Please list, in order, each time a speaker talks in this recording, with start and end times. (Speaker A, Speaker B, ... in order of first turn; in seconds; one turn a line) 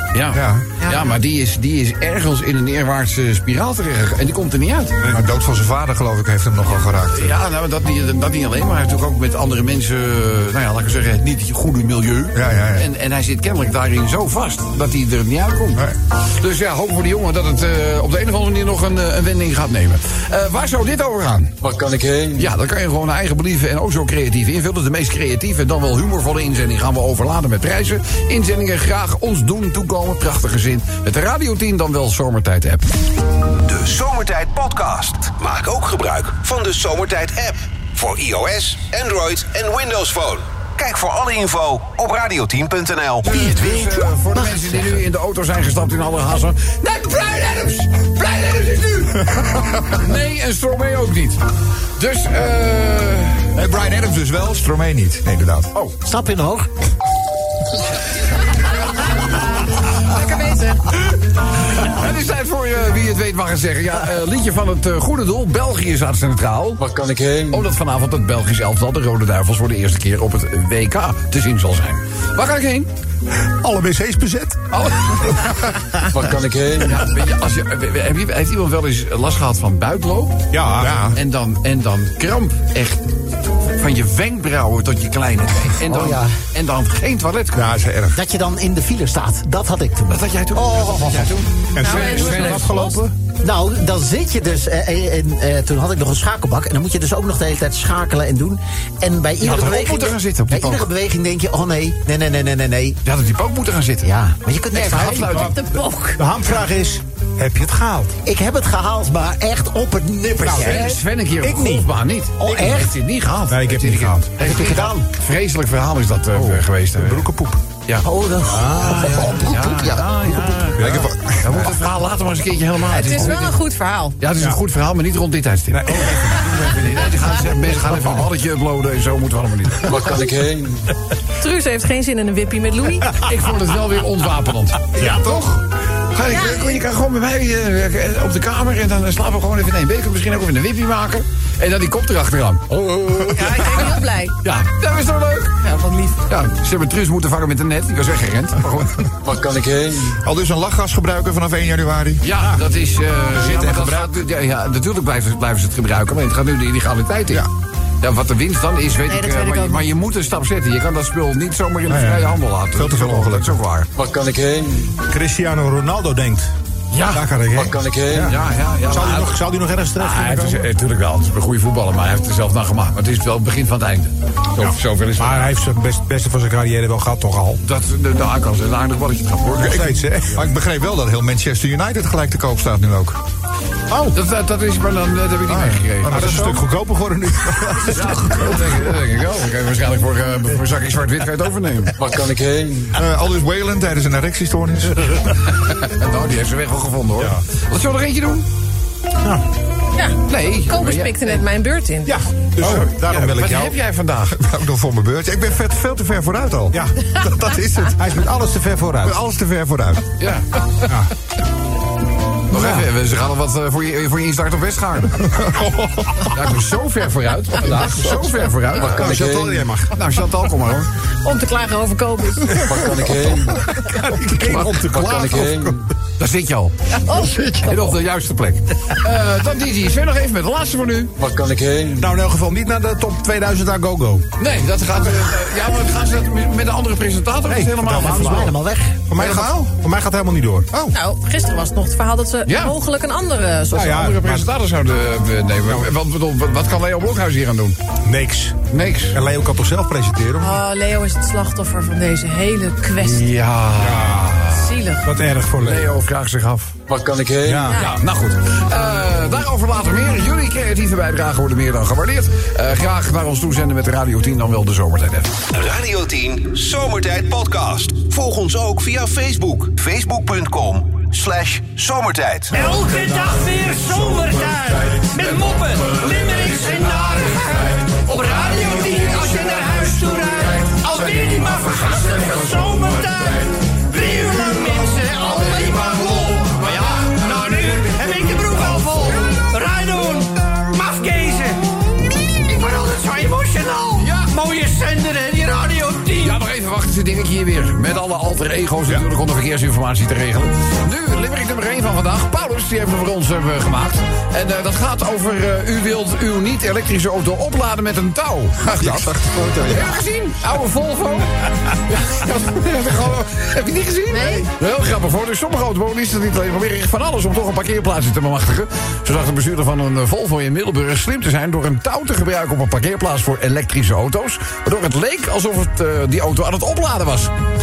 Speaker A: 0.1-5.0
Speaker B: 0.3-0.7
Speaker C: 0.8-1.1
Speaker B: 5.1-7.4
Speaker A: 7.1-21.5
Speaker B: 12.3-12.9
Speaker D: 21.6-22.5
Speaker A: 22.4-32.9
Speaker E: 33.6-43.3
Speaker A: 43.2-51.4
Speaker F: 43.2-45.0
Speaker A: 52.0-53.5
Speaker B: 53.5-55.7
Speaker F: 56.0-56.7
Speaker C: 58.4-60.8
Speaker A: 60.9-66.8
Speaker D: 66.8-67.7
Speaker A: 67.5-72.9
Speaker G: 73.6-74.6
Speaker A: 74.7-75.5
Speaker D: 76.1-77.0
Speaker A: 76.8-80.4
Speaker G: 80.5-81.1
Speaker B: 80.7-81.2
Speaker A: 81.1-83.1
Speaker A: 83.7-87.7
Speaker F: 85.8-86.3
Speaker B: 87.5-88.2
Speaker F: 88.1-91.3
Speaker A: 90.1-92.8
Speaker G: 91.7-93.1
Speaker C: 91.8-93.0
Speaker F: 93.4-103.0
Speaker A: 99.4-100.9
Speaker A: 103.0-104.1
Speaker F: 104.0-105.3
Speaker A: 104.7-105.6
Speaker G: 104.9-105.6
Speaker C: 105.3-106.2
Speaker G: 106.2-108.1
Speaker F: 108.2-110.9
Speaker G: 110.4-110.9
Speaker A: 110.5-117.3
Speaker G: 111.4-111.9
Speaker F: 112.4-113.0
Speaker G: 113.5-114.3
Speaker F: 114.4-115.1
Speaker G: 116.4-117.6
Speaker F: 118.0-120.4
Speaker G: 118.5-119.4
Speaker A: 119.1-123.6
Speaker B: 120.8-121.7
Speaker C: 122.9-124.2
Speaker A: 124.2-129.9
Speaker G: 125.8-126.9
Speaker D: 129.8-130.9
Speaker C: 131.4-133.2
Speaker A: 133.2-145.6
Speaker G: 135.0-135.3
Speaker C: 136.2-136.8
Speaker C: 143.3-144.3
Speaker C: 145.6-146.2
Speaker A: 146.3-149.1
Speaker D: 149.2-150.2
Speaker B: 150.2-152.2
Speaker A: 152.2-157.5
Speaker B: 153.3-154.2
Speaker A: 158.0-163.9
Speaker C: 159.1-159.9
Speaker B: 162.7-163.6
Speaker D: 163.9-164.9
Speaker G: 165.1-166.5
Speaker A: 166.9-167.2
Speaker G: 167.1-170.7
Speaker D: 167.5-168.3
Speaker A: 168.2-169.4
Speaker A: 170.0-175.5
Speaker G: 174.6-177.6
Speaker A: 177.6-179.9
Speaker B: 179.6-183.2
Speaker G: 179.6-180.4
Speaker G: 183.9-184.2
Speaker A: 184.1-186.6
Speaker B: 185.5-186.6
Speaker G: 186.1-188.8
Speaker A: 187.8-191.9
Speaker D: 192.0-192.9
Speaker B: 192.9-195.4
Speaker A: 195.4-198.4
Speaker C: 199.9-202.2
Speaker A: 200.2-201.4
Speaker G: 202.1-203.8
Speaker A: 202.6-204.4
Speaker B: 204.3-208.2
Speaker G: 207.9-209.2
Speaker B: 209.0-210.1
Speaker A: 210.2-210.9
Speaker A: 212.5-215.3
Speaker G: 215.4-216.3
Speaker A: 216.3-219.3
Speaker G: 217.7-219.9
Speaker D: 218.7-219.7
Speaker A: 219.9-220.9
Speaker C: 221.2-222.7
Speaker D: 222.6-223.7
Speaker G: 223.6-225.8
Speaker A: 224.1-224.8
Speaker D: 224.5-225.9
Speaker A: 226.2-226.8
Speaker C: 226.9-227.8
Speaker G: 227.1-227.6
Speaker A: 227.6-231.1
Speaker D: 231.2-232.1
Speaker G: 232.0-234.3
Speaker A: 234.4-238.5
Speaker G: 237.5-238.6
Speaker F: 237.9-239.1
Speaker G: 239.1-240.9
Speaker A: 239.2-239.5
Speaker C: 240.9-244.0
Speaker A: 242.4-242.8
Speaker G: 243.7-244.5
Speaker A: 243.7-247.8
Speaker G: 248.0-248.6
Speaker A: 248.7-249.2
Speaker G: 249.1-250.6
Speaker C: 250.4-253.3
Speaker A: 253.0-254.7
Speaker G: 253.8-254.4
Speaker C: 254.4-255.1
Speaker G: 255.0-255.9
Speaker A: 255.6-256.7
Speaker D: 256.9-257.7
Speaker G: 257.4-257.8
Speaker C: 257.7-258.0
Speaker A: 257.7-265.3
Speaker E: 265.5-272.6
Speaker H: 272.5-291.6
Speaker H: 292.4-296.4
Speaker A: 294.0-294.4
Speaker A: 296.1-327.3
Speaker B: 308.6-310.0
Speaker C: 314.1-314.5